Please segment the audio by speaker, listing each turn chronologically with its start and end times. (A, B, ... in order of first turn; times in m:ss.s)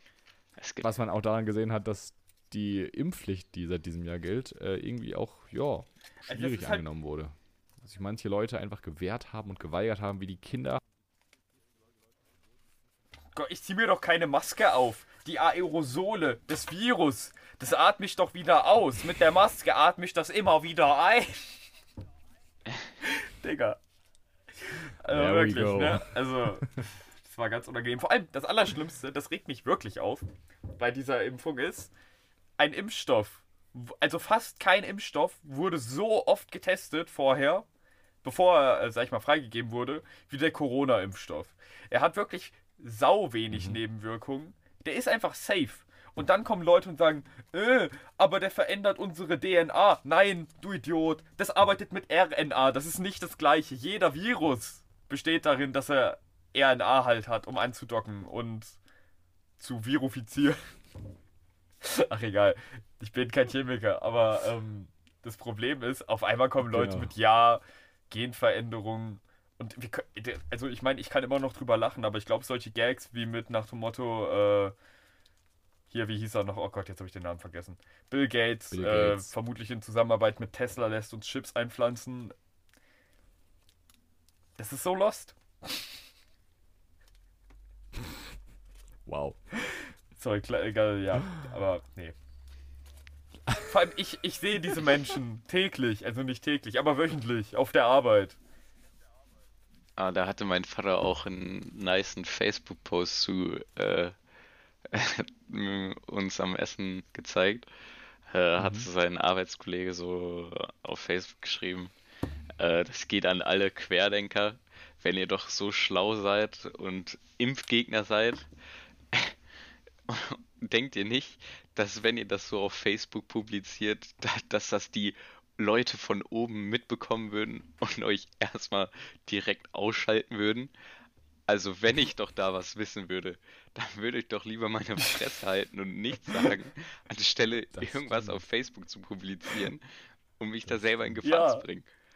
0:00.6-0:00.9 A
0:00.8-0:10.8 B
0:06.3-0:06.9 C
0:13.3-0:21.7 C
0:23.0-0:23.8 C
0:24.6-0:31.9 C
0:25.1-0:26.8 B
0:32.6-0:37.6 C
0:38.2-0:58.8 C
0:43.5-0:43.8 B
0:59.6-1:00.7 C
1:01.8-1:14.7 C
1:06.6-1:07.1 B
1:15.9-1:22.4 C
1:18.7-1:19.3 B
1:24.6-1:25.8 C
1:29.0-1:29.4 B
1:29.6-1:32.2 C
1:33.7-1:38.4 C
1:40.0-1:44.1 A
1:44.9-1:47.7 A
1:48.3-1:51.9 A
1:48.6-1:48.9 B
1:52.6-1:58.4 A
2:00.1-2:10.7 A
2:11.5-2:19.8 A
2:17.7-2:18.4 B
2:20.4-2:21.9 A
2:21.2-2:21.6 C